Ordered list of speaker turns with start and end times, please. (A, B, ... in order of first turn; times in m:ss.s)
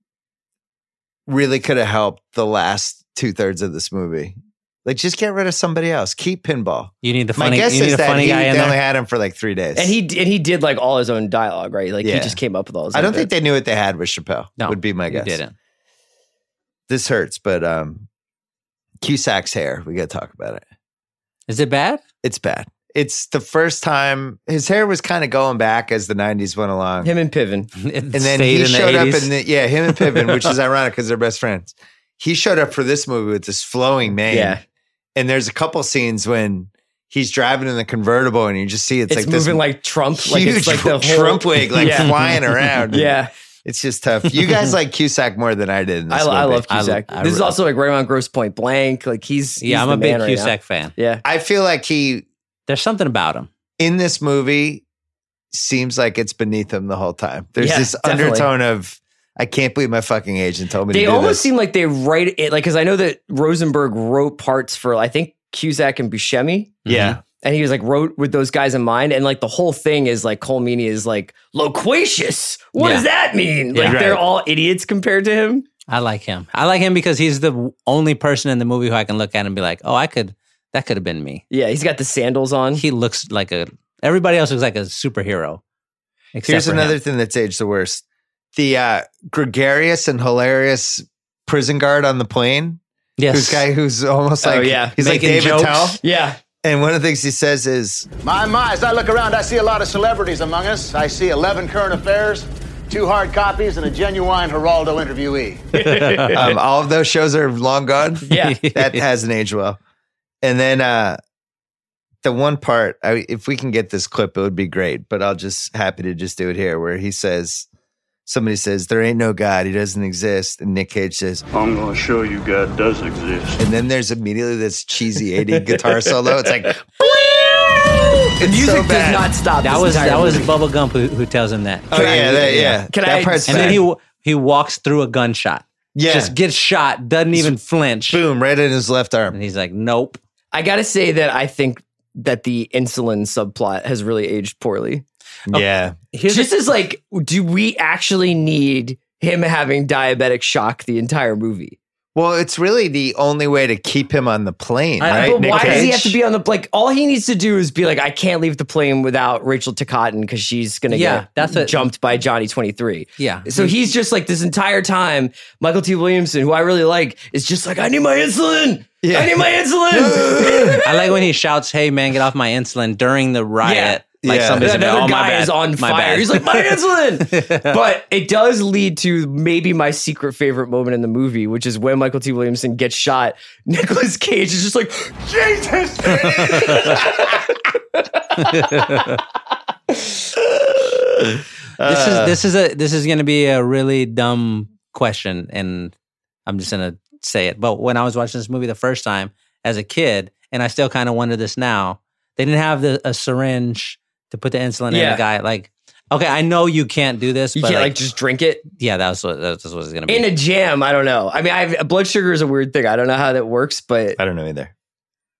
0:01.3-0:10.0 A
0:07.0-0:08.8 B
0:09.7-0:13.3 C
0:12.0-0:12.4 A
0:12.9-0:15.4 A
0:14.6-0:15.5 B
0:16.9-0:18.0 A
0:19.0-0:20.6 A
0:21.5-0:22.0 B
0:22.2-0:27.1 A
0:27.0-0:27.7 C
0:27.8-0:29.3 B
0:28.1-0:34.6 A
0:29.9-0:30.5 B
0:34.3-0:34.6 C
0:35.2-0:39.6 A
0:39.1-0:42.3 C
0:40.2-0:46.7 A
0:42.9-0:43.3 C
0:44.3-0:44.7 B
0:46.1-0:51.2 C
0:46.7-0:47.6 B
0:49.6-0:50.9 B
0:51.2-0:52.2 A
0:52.7-0:53.5 B
0:53.8-0:54.8 A
0:55.5-1:01.5 A
0:57.6-0:58.5 C
1:00.9-1:06.8 C
1:06.8-1:07.2 B
1:06.9-1:07.2 A
1:07.3-1:15.6 C
1:12.8-1:13.0 B
1:13.7-1:14.0 B
1:13.8-1:14.2 A
1:15.9-1:21.4 B
1:21.5-1:22.8 C
1:22.8-1:25.6 B
1:26.3-1:27.0 B
1:26.4-1:28.0 A
1:28.5-1:32.8 A
1:33.2-1:33.6 B
1:33.3-1:36.0 A
1:34.4-1:34.9 C
1:35.0-1:36.0 B
1:36.0-1:36.4 C
1:36.6-1:38.1 A
1:38.2-1:45.6 D
1:45.7-1:46.5 C
1:45.8-1:46.4 B
1:46.3-1:49.8 A
1:48.3-1:48.6 C
1:48.3-1:49.0 B
1:50.4-1:51.2 A
1:52.2-1:57.7 A
1:58.2-2:01.4 A
2:01.5-2:03.6 E
2:03.6-2:06.8 A
2:05.7-2:10.5 C
2:08.4-2:09.3 A
2:09.6-2:12.8 B
2:11.9-2:13.8 A
2:11.9-2:13.8 C
2:13.5-2:18.2 B
2:15.9-2:16.3 A
2:18.1-2:19.4 A
2:19.3-2:20.2 B
2:20.5-2:25.0 C
2:25.5-2:26.0 A
2:25.5-2:26.6 B
2:26.3-2:31.8 C
2:32.1-2:36.2 A
2:35.0-2:35.9 B
2:35.1-2:51.1 C
2:40.9-2:41.9 B
2:43.2-2:43.8 B
2:49.0-2:50.8 A
2:50.8-2:57.8 B
2:53.6-2:54.0 C
2:54.2-2:54.8 A
2:54.6-3:09.0 C
3:06.2-3:06.9 B
3:08.4-3:09.2 B
3:09.9-3:10.2 C
3:11.8-3:12.4 A
3:11.8-3:15.9 B
3:16.4-3:27.9 B
3:24.9-3:25.2 C
3:27.5-3:28.6 C
3:28.8-3:30.3 B
3:30.1-3:34.2 C
3:34.2-3:34.7 A